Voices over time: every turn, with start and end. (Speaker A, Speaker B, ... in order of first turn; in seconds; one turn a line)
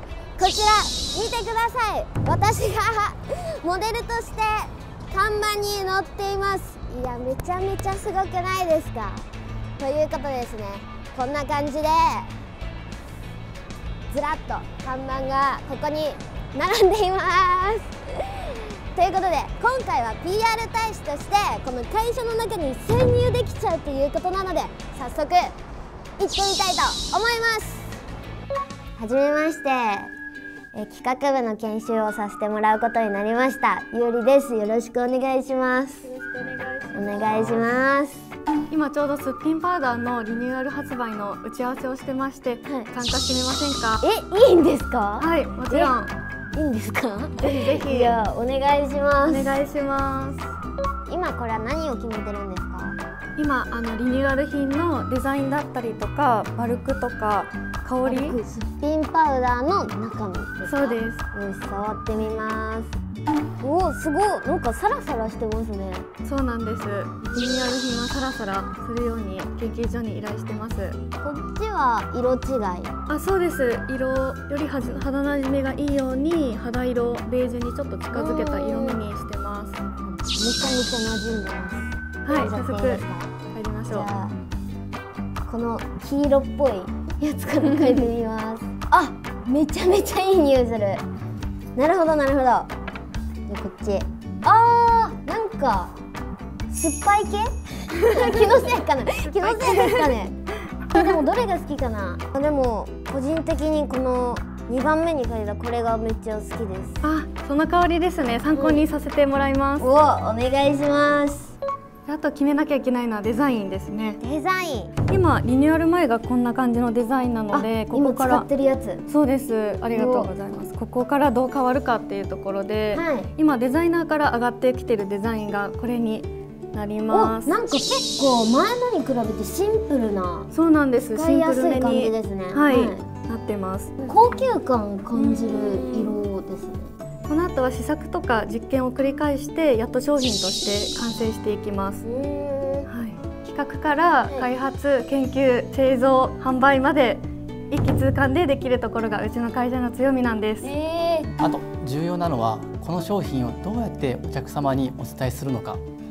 Speaker A: 0.4-9.3
Speaker A: 9.8-12.3
Speaker A: 14.1-25.5
Speaker A: 26.2-28.0
Speaker A: 29.0-30.1
Speaker A: 30.7-36.1
Speaker B: 36.1-37.7
Speaker A: 36.9-38.3
Speaker B: 38.7-44.0
Speaker A: 42.6-42.9
Speaker A: 44.0-45.9
Speaker B: 45.2-46.1
Speaker A: 46.5-49.6
Speaker B: 47.4-48.2
Speaker B: 49.3-50.4
Speaker A: 51.1-53.0
Speaker B: 53.4-58.4
Speaker A: 58.0-63.0
Speaker B: 60.7-61.2
Speaker A: 63.6-66.1
Speaker B: 66.2-71.0
Speaker A: 71.2-72.9
Speaker B: 73.1-79.8
Speaker A: 78.1-79.0
Speaker A: 80.0-83.3
Speaker B: 82.2-84.1
Speaker A: 83.9-84.3
Speaker A: 85.5-91.0
Speaker A: 91.8-92.7
Speaker A: 93.5-95.9
Speaker A: 96.7-107.0
Speaker B: 98.0-98.7
Speaker B: 99.2-100.1
Speaker B: 107.0-109.9
Speaker A: 108.5-108.8
Speaker A: 109.8-111.6
Speaker B: 112.1-114.2
Speaker A: 114.2-114.9
Speaker B: 115.1-118.5
Speaker A: 117.5-119.0
Speaker B: 119.1-127.6
Speaker A: 119.9-120.3
Speaker A: 122.9-123.3
Speaker A: 127.1-130.5
Speaker B: 130.5-134.0
Speaker A: 131.2-133.1
Speaker A: 134.0-136.9
Speaker B: 135.2-136.2
Speaker B: 137.3-142.0
Speaker A: 142.1-142.9
Speaker B: 142.9-150.7
Speaker A: 150.6-151.3
Speaker C: 151.4-155.8